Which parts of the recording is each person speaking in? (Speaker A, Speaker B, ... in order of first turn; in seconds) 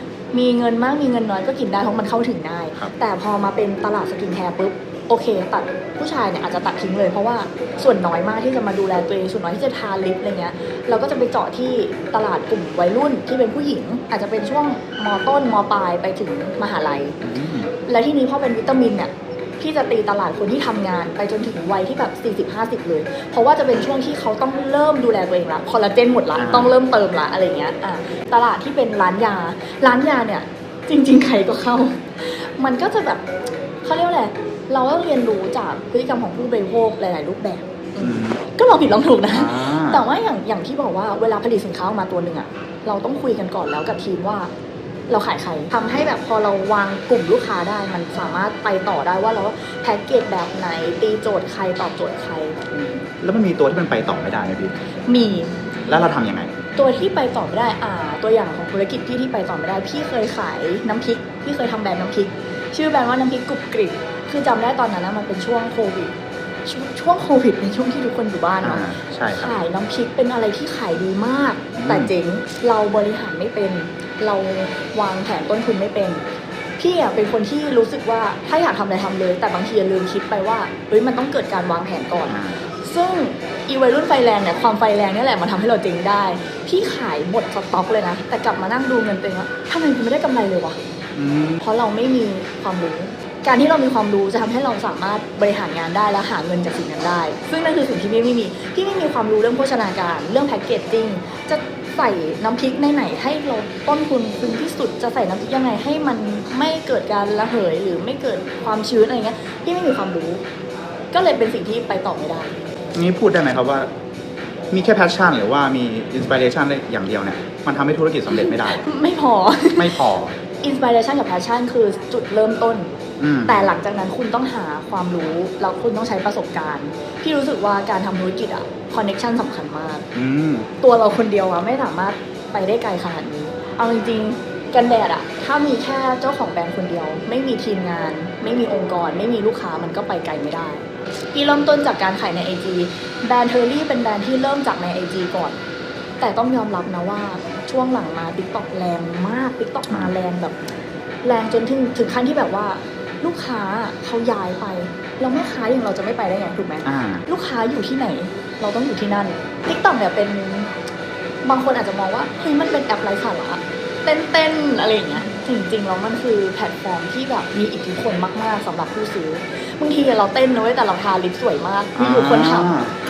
Speaker A: 0.3-17.2, 17.9-33.2, 33.8-44.5, 45.1-52.8, 55.1-55.6, 56.8-66.1, 66.7-76.2, 76.8-90.8, 91.6-110.4, 111.1-112.5, 118.3-120.0, 120.6-122.9, 123.5-130.1, 130.8-145.6, 146.2-150.6, 151.2-160.7, 161.4-172.7
Speaker B: 17.2-17.7, 26.4-26.7, 38.0-38.4, 39.3-40.0, 53.2-54.7, 55.9-56.6, 68.6-69.5, 71.8-72.1, 82.3-82.6, 91.2-91.6, 113.0-113.9, 114.7-118.8, 119.8-120.4, 123.2-123.7, 130.2-130.7, 149.9-150.1, 156.8-157.2, 172.0-172.9